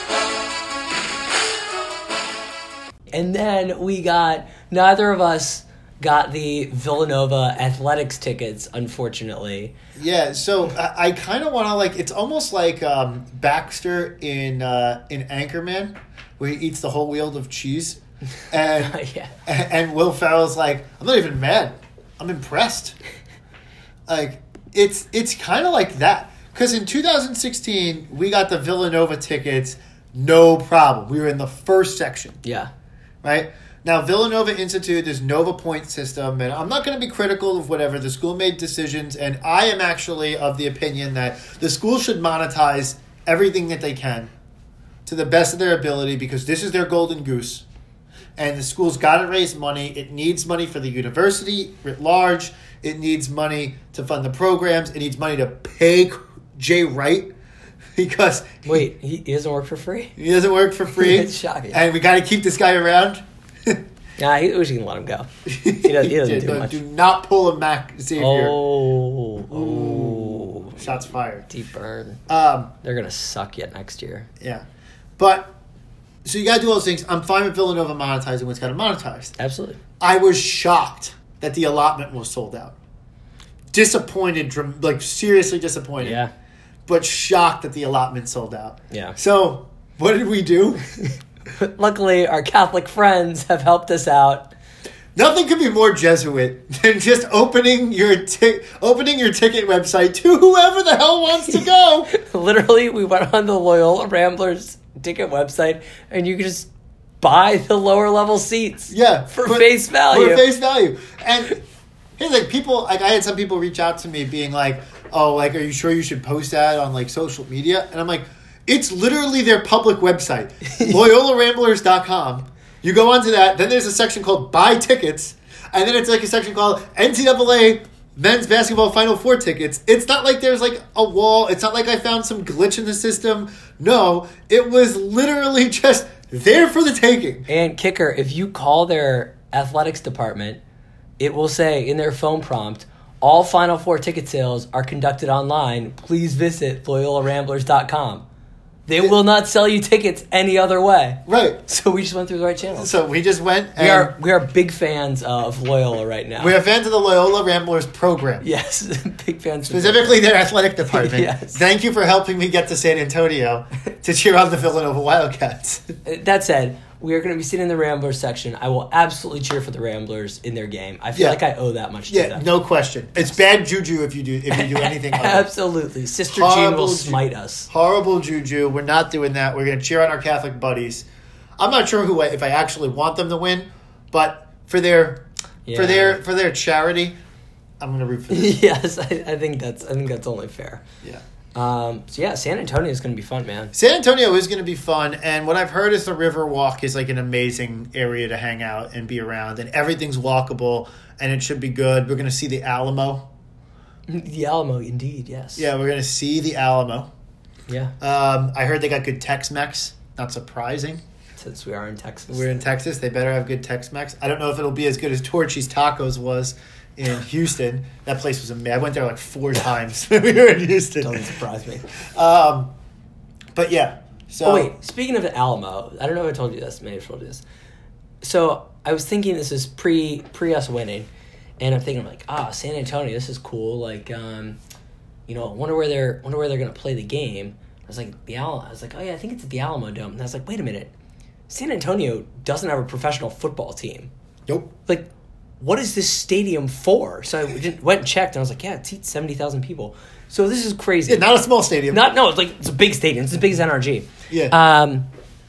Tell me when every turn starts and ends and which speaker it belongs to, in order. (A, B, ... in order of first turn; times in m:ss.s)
0:03.1-0:09.7 A
0:10.0-0:18.0 B
0:18.5-0:23.0 B
0:18.6-0:19.3 A
0:24.1-0:32.4 B
0:32.4-0:32.7 A
0:33.2-0:44.3 B
0:45.1-0:47.6 B
0:48.4-0:57.3 B
0:58.0-0:58.8 B
0:58.6-1:00.2 A
1:00.2-1:03.8 B
1:00.9-1:01.8 A
1:04.2-1:06.8 A
1:05.5-1:08.6 B
1:08.2-1:12.2 A
1:09.5-1:11.5 B
1:12.3-1:12.7 B
1:12.8-1:14.3 A
1:15.2-1:15.6 B
1:16.2-1:19.4 B
1:19.4-1:19.8 A
1:20.0-1:22.8 B
1:23.7-1:26.2 B
1:26.0-1:26.3 A
1:26.9-1:31.0 B
1:28.9-1:29.2 A
1:31.0-1:34.5 A
1:35.2-1:42.1 B
1:41.5-1:46.7 A
1:47.2-1:50.5 A
1:48.9-1:51.6 B
1:52.2-2:17.5 B
2:17.5-2:20.6 A
2:21.2-2:28.2 A
2:28.9-2:32.9 A
2:31.3-2:31.6 B
2:32.8-2:34.1 B
2:33.8-2:36.6 A
2:36.4-2:38.5 B
2:38.4-2:40.2 A
2:39.7-2:46.0 B
2:40.9-2:41.6 A
2:46.0-2:52.4 A
2:51.1-2:51.4 B
2:52.1-2:55.5 B
2:54.5-2:57.7 A
2:56.3-3:01.1 B
3:01.6-3:07.2 B
3:05.7-3:06.2 A
3:07.8-3:08.6 B
3:08.3-3:10.8 A
3:11.6-3:13.7 A
3:13.7-3:23.3 B
3:24.1-3:25.7 A
3:25.6-3:27.1 B
3:27.7-3:27.9 A
3:28.0-3:31.0 B
3:31.4-3:32.6 A
3:32.3-3:41.3 B
3:41.0-3:41.9 A
3:41.9-3:42.7 B
3:43.6-3:44.7 B
3:44.4-3:47.4 A
3:48.2-3:51.1 A
3:51.6-3:54.6 A
3:55.3-4:00.9 A
4:01.5-4:04.1 A
4:04.5-4:04.7 B
4:05.6-4:11.3 A
4:11.1-4:12.1 B
4:11.9-4:15.1 A
4:14.3-4:14.6 B